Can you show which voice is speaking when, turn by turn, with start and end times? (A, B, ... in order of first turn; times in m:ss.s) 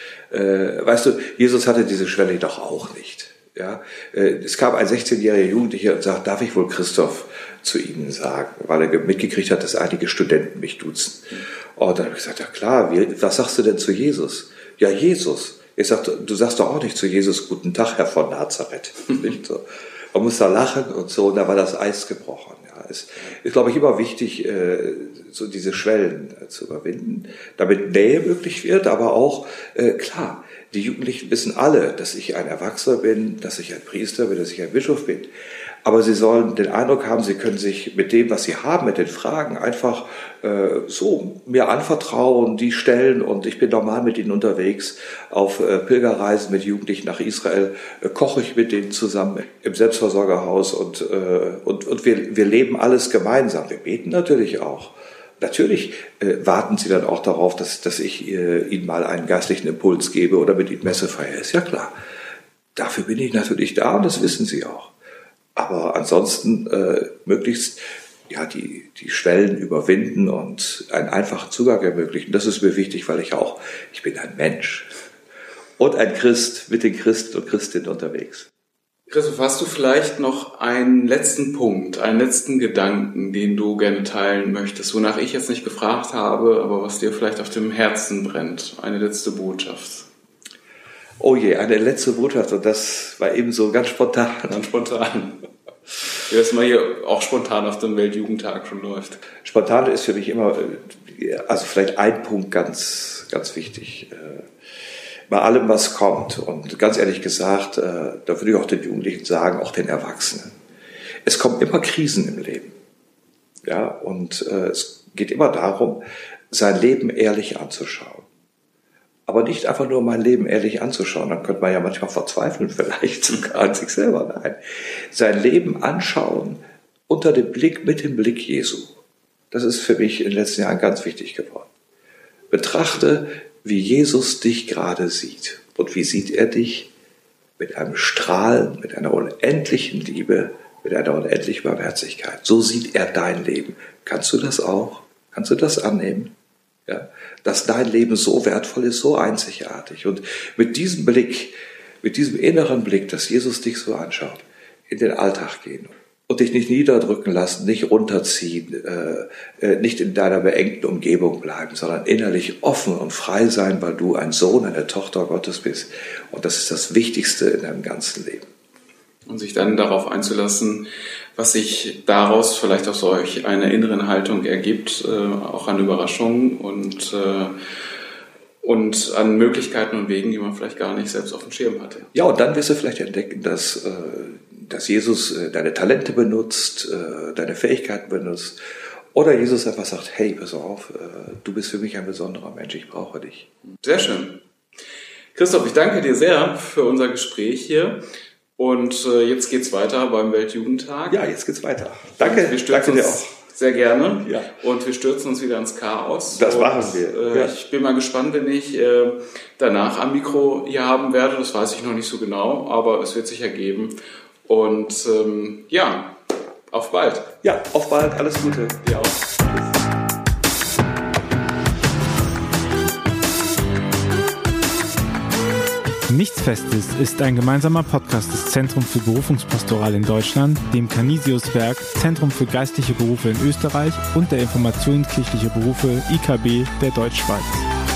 0:00.3-0:35.3 A
0:35.8-1:02.0 A
1:02.8-1:04.9 A
1:05.6-1:14.9 A
1:15.8-1:18.5 A
1:19.1-1:30.1 B
1:31.2-1:34.6 A
1:34.5-1:35.5 B
1:36.2-1:39.2 B
1:39.4-1:44.5 A
1:45.3-1:50.6 A
1:51.2-1:52.8 A
1:53.6-1:58.3 A
1:59.3-2:09.0 A
2:09.5-2:11.7 A
2:12.5-2:16.9 A
2:17.6-2:26.3 A
2:26.9-2:48.5 A
2:49.3-2:57.6 B
2:58.6-3:02.1 B
3:02.1-3:08.6 A
3:09.1-3:13.5 A
3:13.8-3:14.4 B
3:15.4-3:18.0 B
3:18.6-3:21.2 B
3:21.1-3:23.3 A
3:22.2-3:36.2 B
3:24.2-3:24.5 A
3:26.3-3:27.5 A
3:36.7-3:37.3 B
3:37.4-3:39.8 A
3:46.1-3:57.7 C